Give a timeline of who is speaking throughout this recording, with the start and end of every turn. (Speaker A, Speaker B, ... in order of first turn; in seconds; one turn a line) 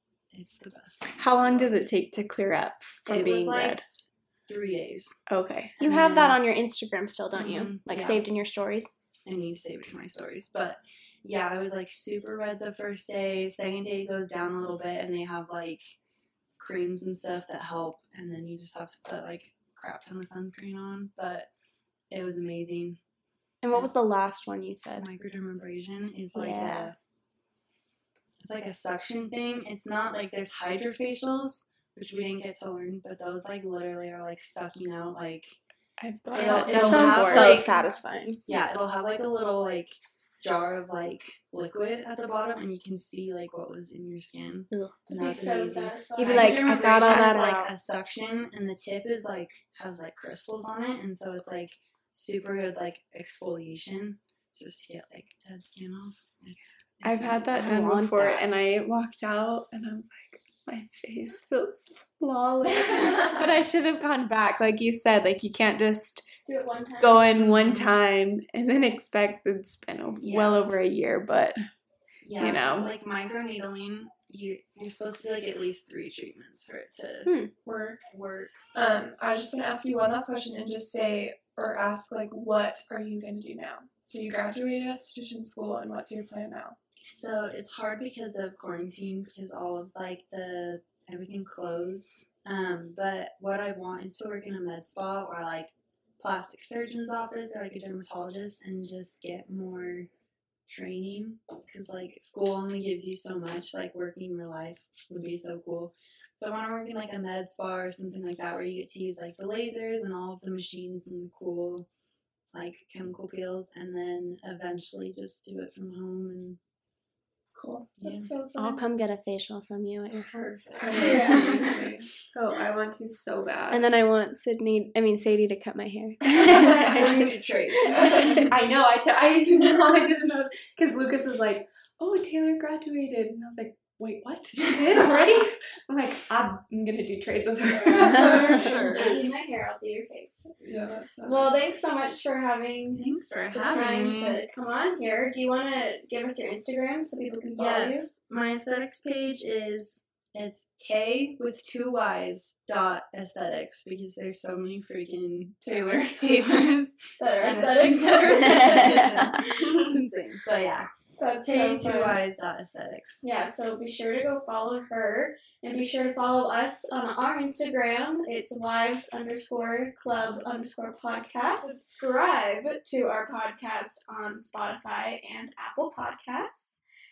Speaker A: 0.3-1.8
Speaker B: 1.2-3.8
Speaker A: 3.0-5.2
Speaker B: 5.3-6.0
Speaker A: 5.8-6.4
Speaker C: 5.8-8.9
Speaker A: 7.3-8.2
Speaker A: 9.2-16.0
Speaker A: 16.6-21.5
Speaker A: 22.1-23.0
Speaker C: 23.6-25.1
Speaker A: 24.9-26.9
Speaker C: 26.3-26.9
Speaker A: 28.4-35.6
Speaker B: 36.0-37.7
Speaker A: 36.3-37.7
Speaker C: 36.7-38.4
Speaker D: 36.7-37.8
Speaker A: 38.4-57.7
Speaker C: 44.7-45.6
Speaker D: 45.1-47.1
Speaker C: 46.1-47.7
Speaker B: 46.9-47.5
Speaker B: 57.0-66.3
Speaker C: 57.5-58.5
Speaker D: 66.4-67.2
Speaker B: 67.0-71.6
Speaker A: 67.3-68.0
Speaker A: 70.2-70.7
Speaker A: 72.2-77.3
Speaker B: 72.4-72.9
Speaker E: 77.6-78.0
Speaker A: 78.1-78.6
Speaker E: 78.7-86.8
Speaker A: 87.0-100.1
Speaker A: 100.7-111.9
Speaker A: 112.5-116.6
Speaker E: 117.5-118.4
Speaker A: 118.0-118.3
Speaker D: 118.0-118.8
Speaker C: 118.5-120.8
Speaker A: 120.3-121.7
Speaker E: 120.8-122.2
Speaker D: 121.0-121.5
Speaker B: 122.3-123.8
Speaker C: 123.7-127.0
Speaker A: 126.2-128.5
Speaker B: 127.9-139.0
Speaker D: 137.9-140.5
Speaker A: 138.3-139.2
Speaker E: 140.6-141.7
Speaker D: 141.2-148.1
Speaker A: 142.9-144.4
Speaker A: 147.5-163.2
Speaker E: 156.0-156.4
Speaker D: 157.2-159.9
Speaker D: 161.2-162.2
Speaker D: 163.2-176.8